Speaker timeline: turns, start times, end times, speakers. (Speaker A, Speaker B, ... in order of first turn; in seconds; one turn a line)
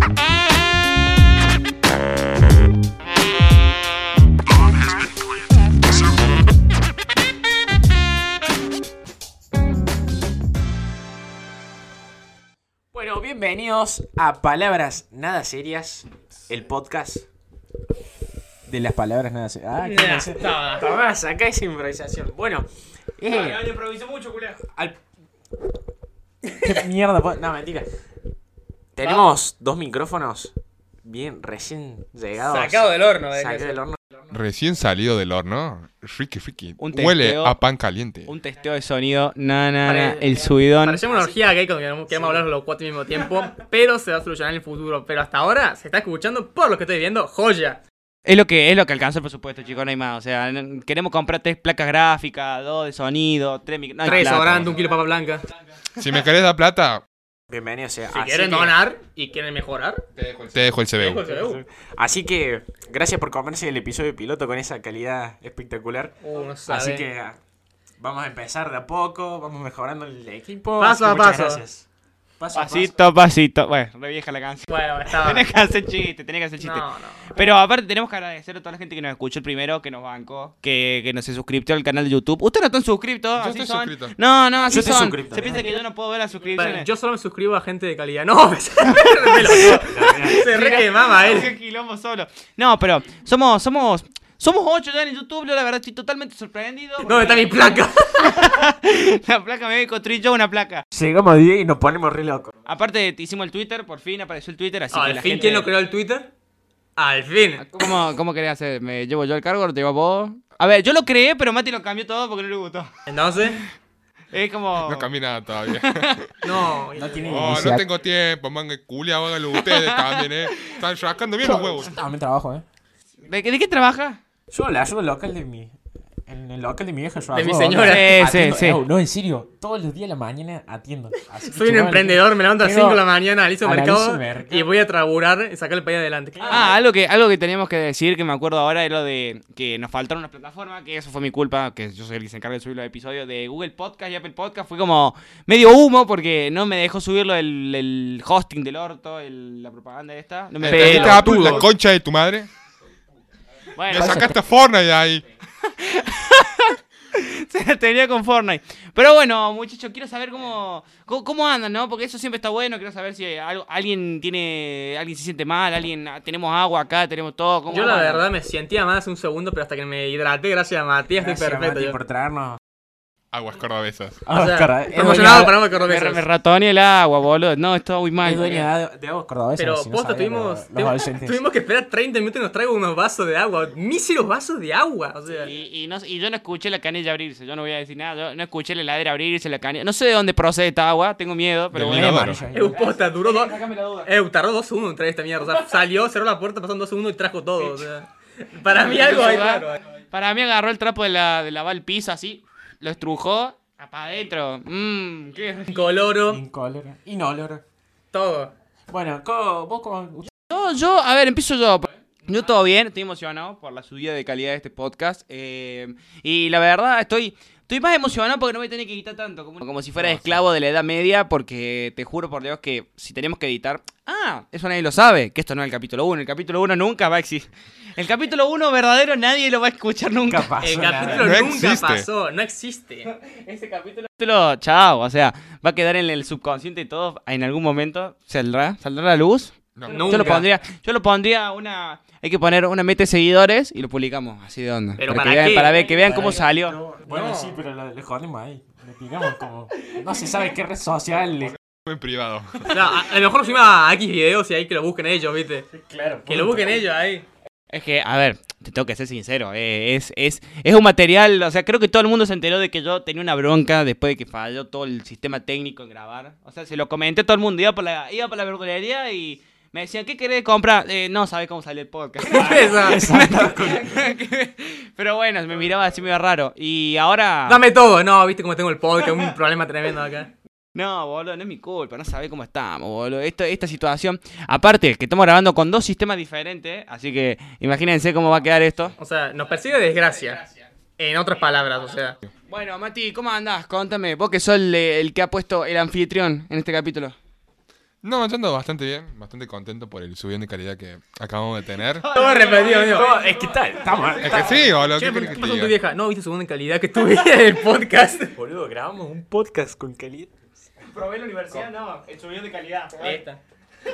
Speaker A: 12.9-17.3
Speaker A: 18.7-22.7
Speaker B: 19.8-21.0
Speaker A: 23.2-23.8
Speaker C: 23.3-24.6
Speaker A: 24.6-25.0
Speaker A: 26.6-27.9
Speaker A: 28.9-34.0
Speaker B: 29.0-29.2
Speaker B: 32.4-33.8
Speaker D: 34.3-38.3
Speaker C: 36.8-37.6
Speaker C: 38.3-41.0
Speaker B: 39.9-47.8
Speaker A: 41.0-41.4
Speaker A: 42.1-42.5
Speaker C: 48.2-54.7
Speaker B: 54.0-55.5
Speaker D: 54.3-54.6
Speaker D: 56.0-57.0
Speaker A: 57.5-58.8
Speaker B: 58.1-60.0
Speaker D: 60.2-61.2
Speaker B: 61.0-61.6
Speaker A: 61.3-66.2
Speaker B: 66.2-67.1
Speaker A: 66.7-67.4
Speaker A: 68.0-71.9
Speaker B: 70.8-71.6
Speaker A: 72.4-73.0
Speaker C: 72.5-86.9
Speaker B: 74.7-75.5
Speaker B: 76.6-77.5
Speaker D: 83.4-84.2
Speaker A: 84.7-85.8
Speaker B: 85.5-85.8
Speaker B: 86.6-91.5
Speaker C: 88.9-97.5
Speaker A: 89.6-90.5
Speaker B: 97.0-98.5
Speaker C: 98.2-100.8
Speaker A: 100.9-102.5
Speaker C: 102.7-105.7
Speaker B: 104.9-106.3
Speaker B: 107.0-107.7
Speaker C: 107.6-112.9
Speaker B: 113.1-113.6
Speaker C: 114.3-115.1
Speaker D: 114.8-116.3
Speaker C: 115.7-116.3
Speaker B: 116.4-117.7
Speaker A: 116.9-117.9
Speaker D: 117.3-122.0
Speaker C: 119.6-120.8
Speaker A: 121.4-122.7
Speaker C: 123.2-124.2
Speaker A: 124.5-133.1
Speaker B: 127.3-128.3
Speaker C: 127.8-128.8
Speaker B: 131.4-136.7
Speaker A: 133.6-134.7
Speaker A: 136.3-136.8
Speaker C: 136.4-151.6
Speaker D: 150.6-152.5
Speaker A: 150.7-151.6
Speaker B: 150.7-151.7
Speaker C: 153.8-154.3
Speaker A: 153.9-154.4
Speaker D: 153.9-155.2
Speaker C: 155.6-168.3
Speaker B: 167.7-172.0
Speaker A: 171.1-172.6
Speaker D: 173.3-174.2
Speaker A: 174.3-175.7
Speaker B: 174.3-176.2
Speaker C: 175.8-178.6
Speaker A: 178.2-181.4
Speaker B: 179.6-185.5
Speaker C: 185.4-194.1
Speaker D: 191.7-192.4
Speaker A: 191.7-192.9
Speaker B: 192.5-199.8
Speaker C: 198.8-205.7
Speaker B: 205.7-206.4
Speaker A: 206.3-207.6
Speaker B: 208.1-208.5
Speaker A: 208.9-210.3
Speaker C: 210.5-230.5
Speaker A: 230.3-231.5
Speaker B: 230.6-233.1
Speaker D: 231.2-232.1
Speaker C: 233.1-246.8
Speaker D: 239.8-240.4
Speaker B: 239.9-240.5
Speaker B: 245.0-246.4
Speaker A: 245.5-251.6
Speaker B: 247.1-247.6
Speaker D: 251.7-252.8
Speaker B: 252.7-255.7
Speaker A: 255.7-256.8
Speaker B: 256.3-257.3
Speaker C: 257.7-277.6
Speaker B: 272.2-273.1
Speaker A: 272.3-274.0
Speaker B: 277.5-280.3
Speaker C: 280.8-289.0
Speaker B: 289.0-290.5
Speaker B: 291.0-292.2
Speaker C: 292.5-297.2
Speaker D: 298.0-302.1
Speaker C: 302.0-304.6
Speaker B: 302.1-303.2
Speaker A: 302.7-304.7
Speaker D: 304.2-305.8
Speaker B: 304.3-308.4
Speaker A: 308.4-310.3
Speaker C: 310.8-313.2
Speaker B: 313.0-313.4